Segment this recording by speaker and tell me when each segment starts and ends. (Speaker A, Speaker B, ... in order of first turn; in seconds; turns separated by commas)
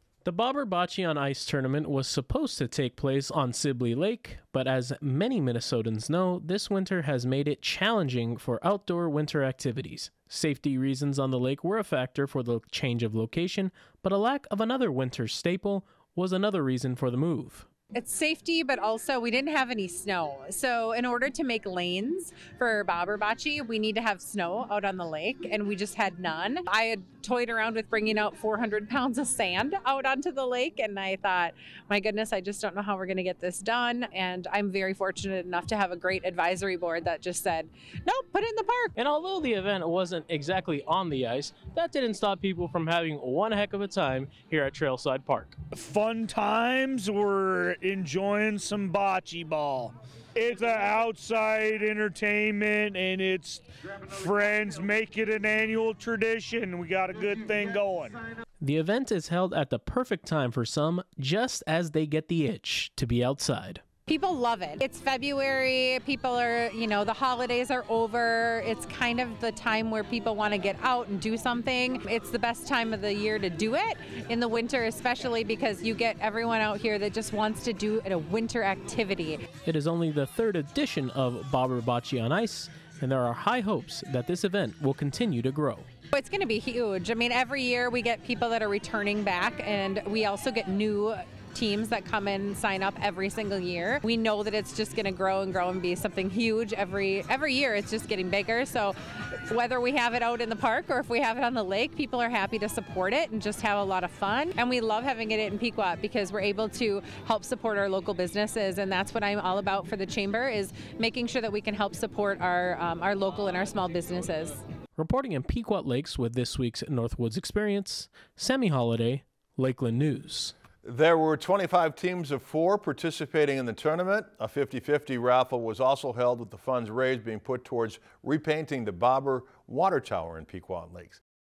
Speaker A: 0.2-17.7, Speaker B: 17.9-38.9, Speaker A: 39.0-45.6, Speaker C: 45.7-58.2, Speaker A: 58.6-63.8, Speaker B: 64.1-79.5, Speaker A: 79.7-85.9, Speaker B: 86.1-114.6, Speaker A: 115.0-120.5, Speaker D: 120.8-131.2